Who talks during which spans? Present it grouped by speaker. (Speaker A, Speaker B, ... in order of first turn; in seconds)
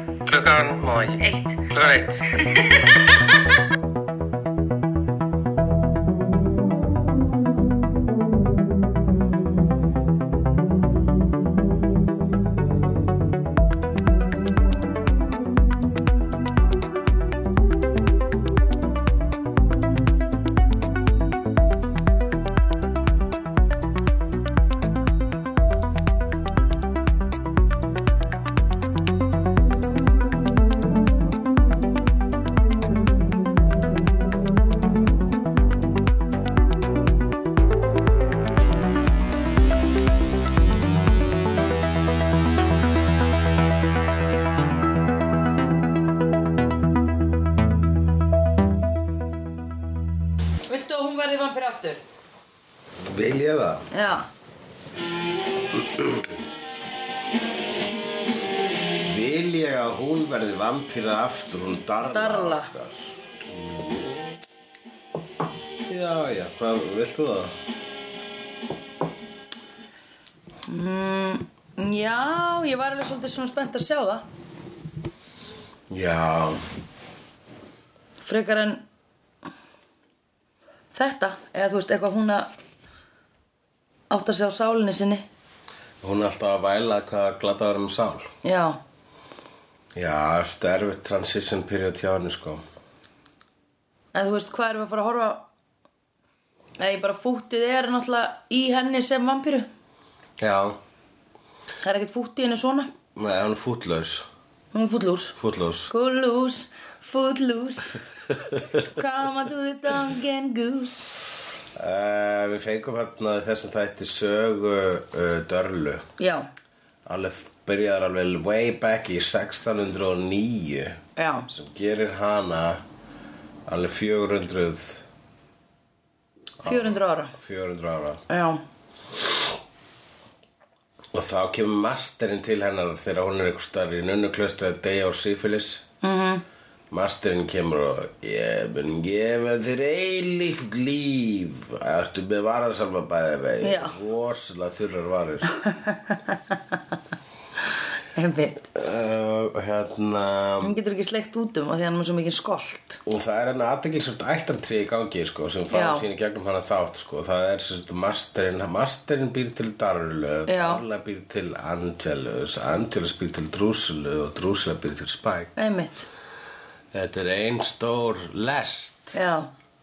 Speaker A: 0.2-2.7
Speaker B: 1.2-1.6, 50.7-52.0, 53.9-54.3, 62.0-62.7, 70.7-74.2, 78.2-78.8, 80.9-82.5, 84.1-85.2, 88.4-88.8, 94.1-95.4, 96.8-99.7, 101.8-102.9, 104.7-105.4, 105.9-108.0, 108.8-111.1, 116.2-116.5, 121.2-121.5, 126.6-127.3, 128.3-128.6, 136.0-136.4, 143.6-143.9, 145.6-146.6, 148.1-148.6, 150.6-153.0, 155.7-156.0, 160.5-160.8, 165.6-166.1, 169.1-169.5
Speaker C: 53.0-53.9, 55.7-56.3, 59.0-64.4, 65.9-67.5, 75.9-76.6, 86.0-88.3, 89.9-92.6, 100.4-100.8, 103.1-104.3, 105.4-105.9, 111.7-116.1, 117.0-122.8, 123.7-125.0, 126.6-128.2, 131.1-135.8, 136.9-145.6, 148.6-150.7, 153.1-165.5, 166.9-169.2